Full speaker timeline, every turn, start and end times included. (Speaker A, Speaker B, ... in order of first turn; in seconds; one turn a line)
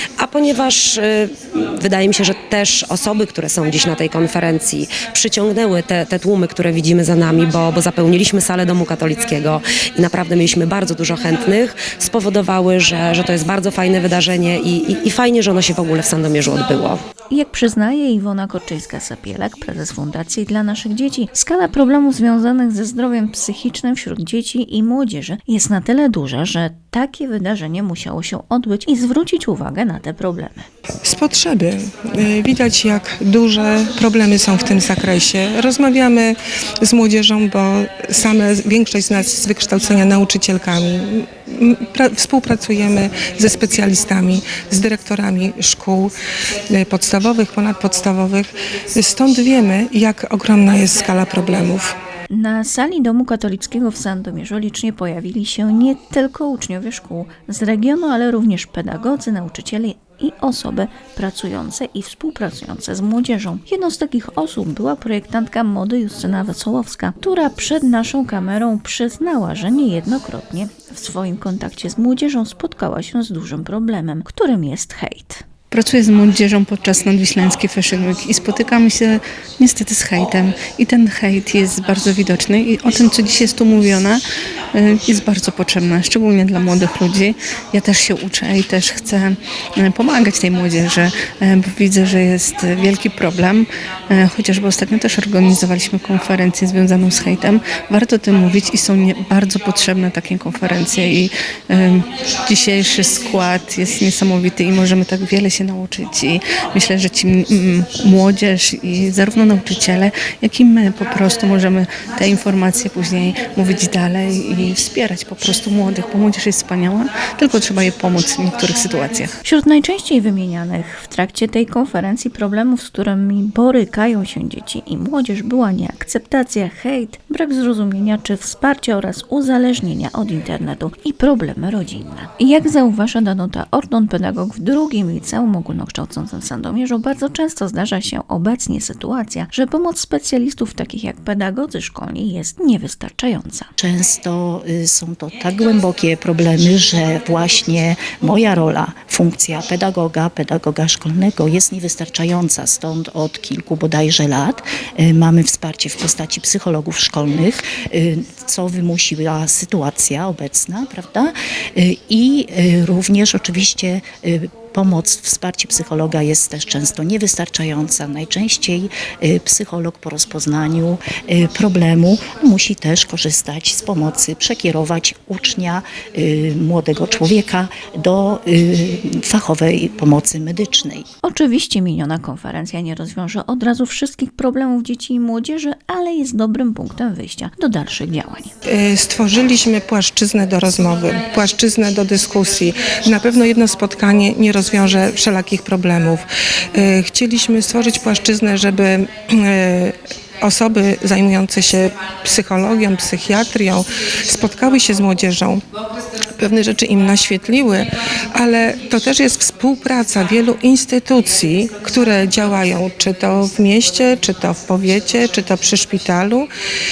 Speaker A: 0.2-17.0
Speaker B: 17.3-30.7
Speaker C: 31.1-46.1
Speaker C: 46.7-52.0
Speaker B: 52.3-75.5
Speaker D: 75.7-84.2
Speaker D: 84.7-119.4
Speaker B: 119.5-143.7
Speaker E: 143.8-181.1
Speaker B: 181.2-188.5
Speaker C: 188.7-205.6
Speaker C: 206.4-216.5